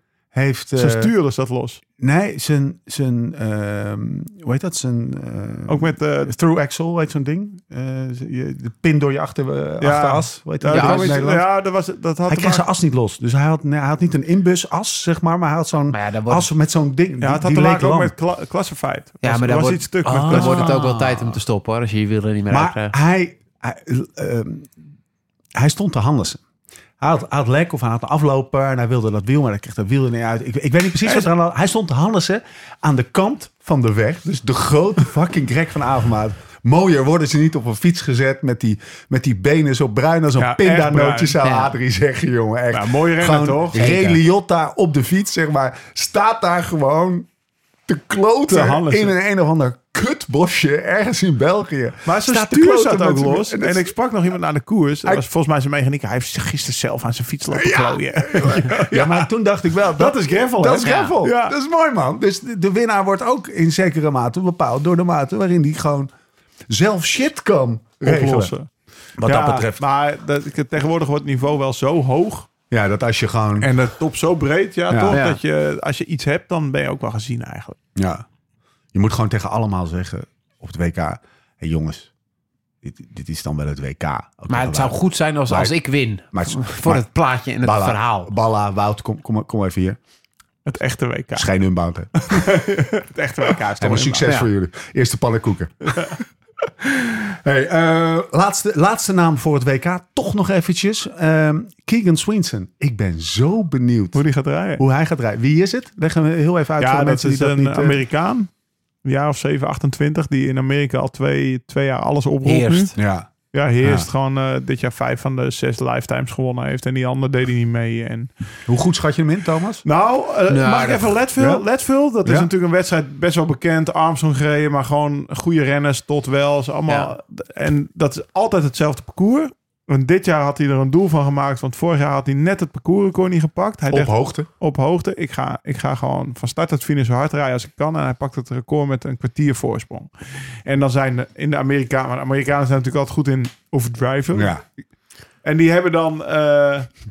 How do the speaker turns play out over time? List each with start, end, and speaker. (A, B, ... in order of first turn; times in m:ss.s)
0:00.3-0:01.1 A
0:00.8-0:01.8 B
0:02.0-0:11.4 A
0:05.7-0:06.3 B
0:09.8-0:12.6 B
0:10.7-0:11.2 C
0:12.3-0:18.1 A
0:15.9-0:16.5 C
0:17.2-0:20.8 B
0:19.2-0:22.9 C
0:20.0-0:21.4 A
0:22.5-0:24.7 A
0:25.5-0:26.4 A
0:27.0-0:47.3 A
0:40.4-0:41.4 B
0:41.4-0:41.8 C
0:42.7-0:43.9 B
0:43.7-0:44.2 C
0:47.9-0:53.9 A
0:48.5-0:49.1 B
0:52.0-0:59.3 B
0:57.5-1:06.1 A
1:00.0-1:01.5 B
1:00.8-1:01.1 C
1:06.7-1:08.5 A
1:08.0-1:08.7 B
1:09.2-1:09.8 A
1:09.2-1:12.5 B
1:12.7-1:13.7 A
1:13.6-1:17.8 B
1:14.9-1:15.2 A
1:15.1-1:15.4 C
1:18.0-1:18.2 A
1:18.9-1:22.1 A
1:22.8-1:25.8 A
1:24.5-1:28.3 C
1:26.3-1:27.1 A
1:27.6-1:30.0 A
1:30.6-1:31.5 B
1:31.3-1:32.6 A
1:32.2-1:34.3 B
1:33.8-1:36.2 A
1:36.8-1:44.2 A
1:44.1-1:44.8 B
1:44.8-1:48.0 A
1:46.8-1:48.5 B
1:49.0-1:53.0 B
1:52.4-1:53.0 C
1:53.0-1:53.3 A
1:53.5-1:58.3 B
1:53.8-1:54.1 A
1:58.6-1:59.8 A
1:59.8-2:20.1 B
2:00.5-2:01.2 C
2:01.4-2:01.6 A
2:13.9-2:14.5 A
2:20.6-2:24.5 B
2:24.3-2:24.6 A
2:25.4-2:26.9 B